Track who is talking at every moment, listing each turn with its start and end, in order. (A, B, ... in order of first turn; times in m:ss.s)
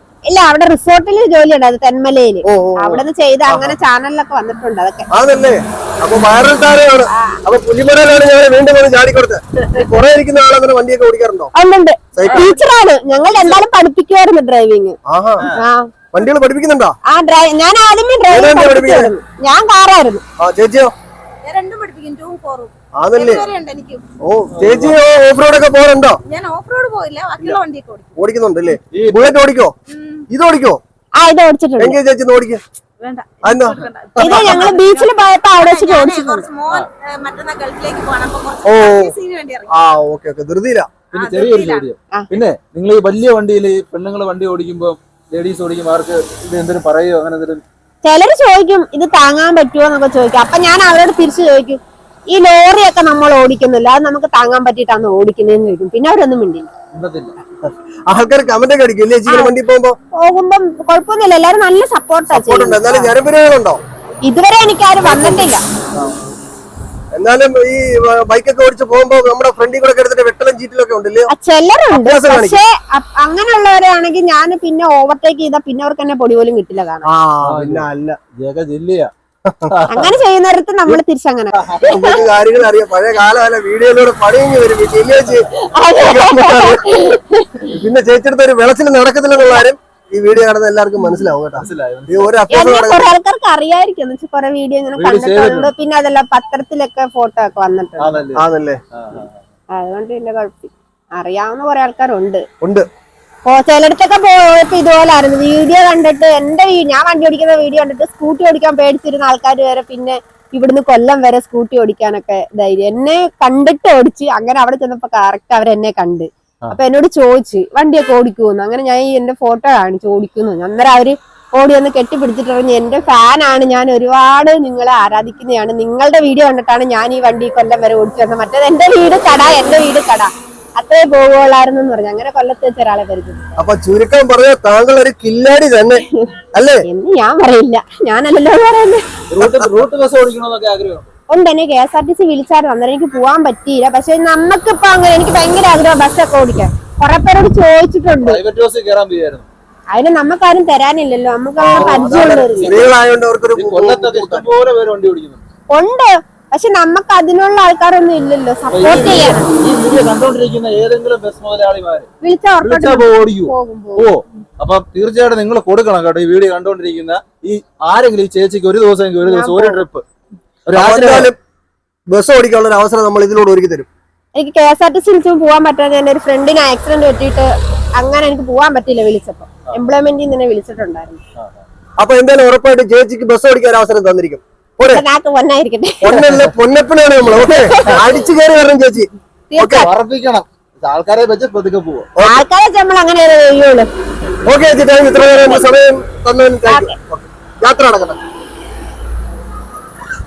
0:00.2-0:05.1 A
0:02.4-0:03.8 B
0:05.1-0:11.5 B
0:07.1-0:07.4 A
0:11.5-0:15.0 A
0:12.1-0:12.5 B
0:15.1-0:15.5 B
0:15.5-0:15.9 A
0:16.1-0:17.0 B
0:17.1-0:20.2 A
0:18.3-0:19.1 B
0:20.4-0:20.9 B
0:21.4-0:24.0 C
0:23.0-0:23.5 B
0:24.2-0:26.2 B
0:24.5-0:25.0 D
0:26.2-0:28.2 C
0:28.2-0:29.7 B
0:28.9-0:29.4 D
0:29.9-0:30.3 C
0:30.3-0:30.8 B
0:31.2-0:32.0 A
0:31.8-0:32.6 B
0:33.0-0:39.7 C
0:33.4-0:34.7 B
0:34.2-0:36.5 A
0:38.6-0:39.1 B
0:39.7-0:40.9 B
0:41.1-0:41.9 C
0:41.1-0:47.6 D
0:48.0-0:56.7 A
0:56.9-0:57.3 D
0:57.6-1:00.0 B
0:59.3-0:59.6 A
1:00.1-1:03.1 A
1:02.3-1:03.8 B
1:04.2-1:05.6 A
1:05.0-1:05.4 B
1:06.0-1:06.3 D
1:07.1-1:11.3 B
1:11.3-1:17.0 A
1:11.9-1:12.6 B
1:17.0-1:18.2 B
1:17.4-1:19.1 D
1:19.4-1:19.7 B
1:19.7-1:20.1 D
1:19.9-1:22.2 A
1:21.6-1:21.8 D
1:21.8-1:25.5 B
1:25.6-1:27.6 A
1:26.0-1:26.8 B
1:27.7-1:33.1 B
1:31.6-1:32.3 D
1:32.5-1:38.2 A
1:35.0-1:35.7 D
1:38.0-1:39.4 D
1:38.4-1:38.8 B
1:39.7-1:42.4 A
1:42.6-1:42.9 B
1:43.4-2:13.6 A
2:13.6-2:16.0 B
2:16.5-2:16.8 B
2:16.8-2:19.0 A
2:19.3-2:21.1 D
2:19.4-2:19.8 B
2:21.3-2:28.4 A
2:28.2-2:29.4 D
2:29.9-2:32.8 A
2:31.6-2:33.0 D
2:31.7-2:34.5 B
2:33.6-2:35.4 D
2:35.7-2:39.5 A
2:38.7-2:42.1 D
2:42.2-2:44.1 A
2:42.6-2:50.0 D
2:49.2-2:49.8 A
2:50.6-2:51.3 D
2:50.7-2:51.4 B
2:52.1-2:53.9 B
2:54.3-3:01.2 A
3:01.4-3:01.6 D
3:02.0-3:05.0 B
3:04.8-3:06.3 A
3:06.0-3:09.8 B
3:07.3-3:08.0 A
3:09.5-3:09.9 A
3:09.6-3:12.0 D
3:12.2-3:12.4 B
3:12.2-3:13.9 A
3:14.4-3:18.2 B
3:15.2-3:15.7 A
3:16.6-3:17.0 A